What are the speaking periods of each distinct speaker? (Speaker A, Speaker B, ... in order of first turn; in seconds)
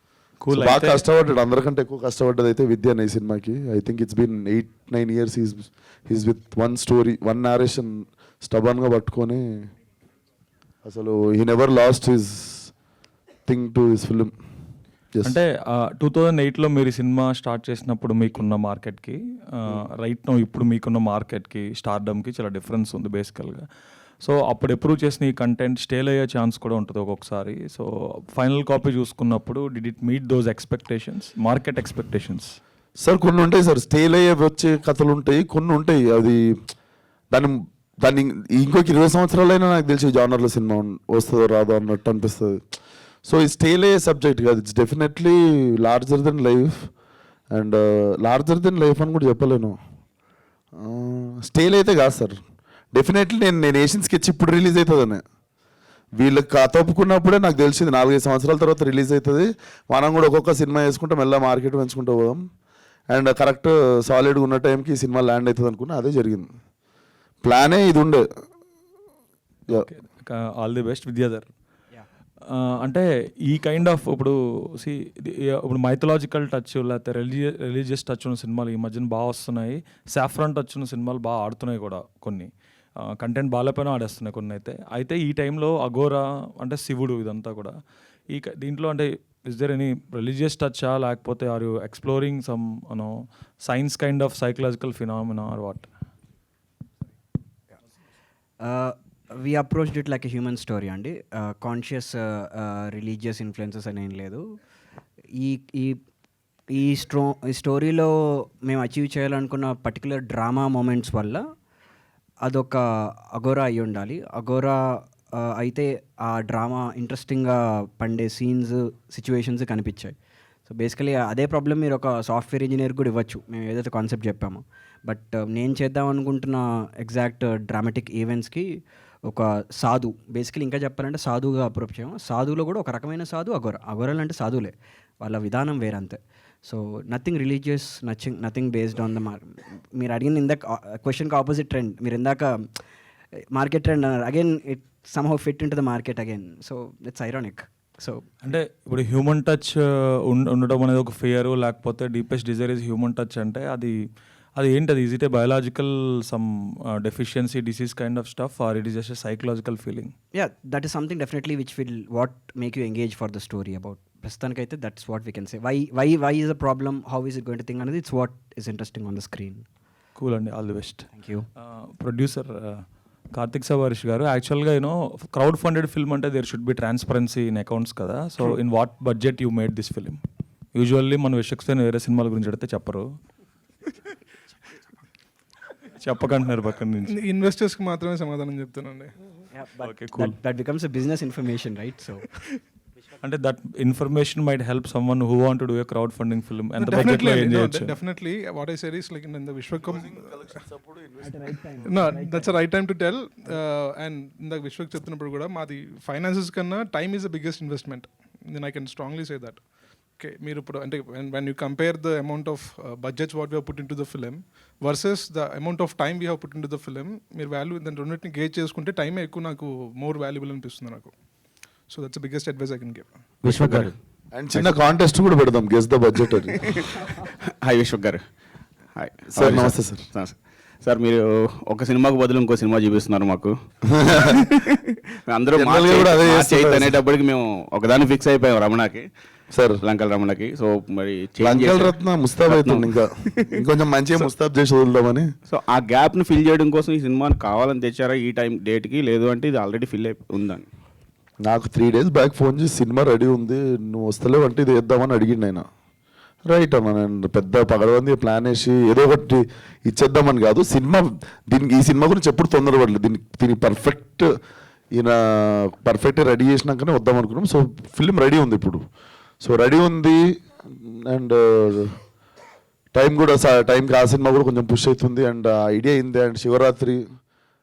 Speaker A: 0.4-1.0, 15.2-23.6, 24.2-32.5, 69.7-71.5, 72.5-82.5, 83.2-87.7, 88.3-93.1, 93.7-95.9, 148.4-153.9, 154.6-160.1, 170.2-180.2, 180.8-183.1, 186.0-187.2, 189.8-190.3, 193.2-198.0
Speaker B: 0.5-9.5, 10.8-12.7, 13.5-14.3, 33.0-36.5, 37.3-42.6, 43.3-46.9, 47.5-49.8, 50.8-52.4, 52.9-55.2, 56.2-62.4, 63.1-66.5, 67.4-68.2, 199.8-201.6, 223.5-226.6, 229.3-230.0, 233.9-234.4, 235.6-237.0, 239.5-239.8, 241.4-245.3, 251.4-255.7, 256.5-264.3, 264.9-268.8, 269.4-270.2, 270.8-272.0, 272.9-277.0
Speaker C: 98.6-104.4, 105.4-106.0, 106.7-111.4, 112.5-120.2, 120.7-142.8, 143.5-148.3, 160.3-169.7, 171.2-171.5, 189.5-192.3, 201.2-202.6
Speaker D: 187.1-189.1, 196.8-200.5, 201.8-209.6, 210.2-221.1, 221.9-223.1
Speaker E: 223.4-223.9, 226.5-228.2, 229.0-233.5, 234.1-239.1, 239.8-243.6, 245.5-250.7